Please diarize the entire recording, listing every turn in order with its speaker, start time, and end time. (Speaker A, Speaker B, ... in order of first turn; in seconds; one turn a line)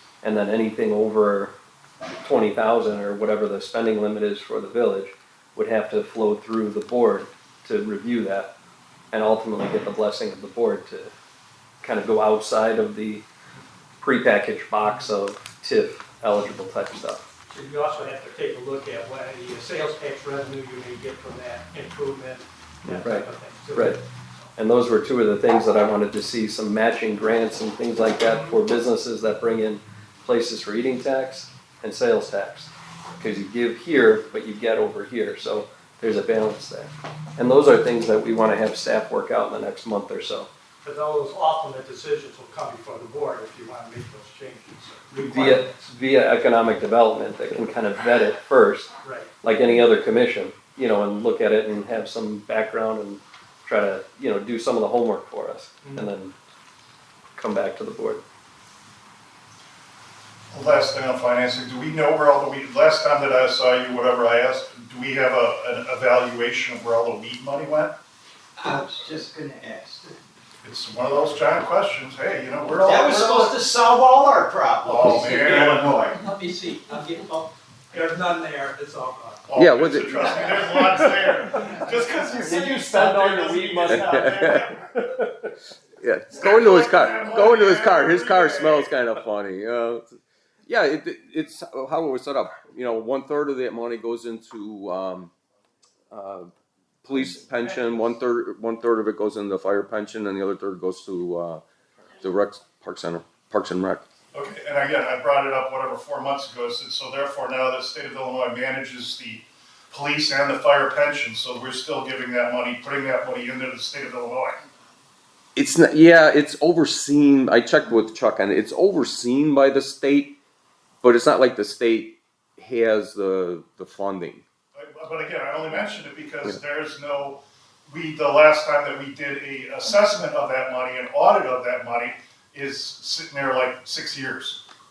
Speaker A: 0.2-1.5
Speaker A: 2.2-8.5
Speaker A: 9.1-11.1
Speaker A: 11.8-13.2
Speaker A: 14.0-17.2
Speaker B: 14.8-15.1
Speaker B: 17.5-24.5
Speaker A: 23.0-24.0
Speaker A: 24.6-40.5
Speaker B: 40.8-45.9
Speaker A: 45.3-56.3
Speaker B: 49.0-49.3
Speaker B: 55.8-56.1
Speaker A: 57.4-58.2
Speaker C: 60.5-67.9
Speaker D: 68.6-70.2
Speaker C: 70.6-73.5
Speaker D: 72.8-76.2
Speaker C: 74.8-76.1
Speaker B: 76.1-79.4
Speaker C: 79.5-84.8
Speaker E: 79.5-81.1
Speaker A: 82.3-85.1
Speaker E: 83.9-84.6
Speaker E: 86.0-90.0
Speaker C: 86.3-88.9
Speaker E: 90.7-95.3
Speaker E: 96.1-96.5
Speaker E: 97.0-101.6
Speaker B: 97.1-98.1
Speaker E: 102.2-104.0
Speaker C: 104.3-114.6
Speaker E: 115.5-120.4
Speaker E: 121.0-124.4
Speaker C: 124.7-134.6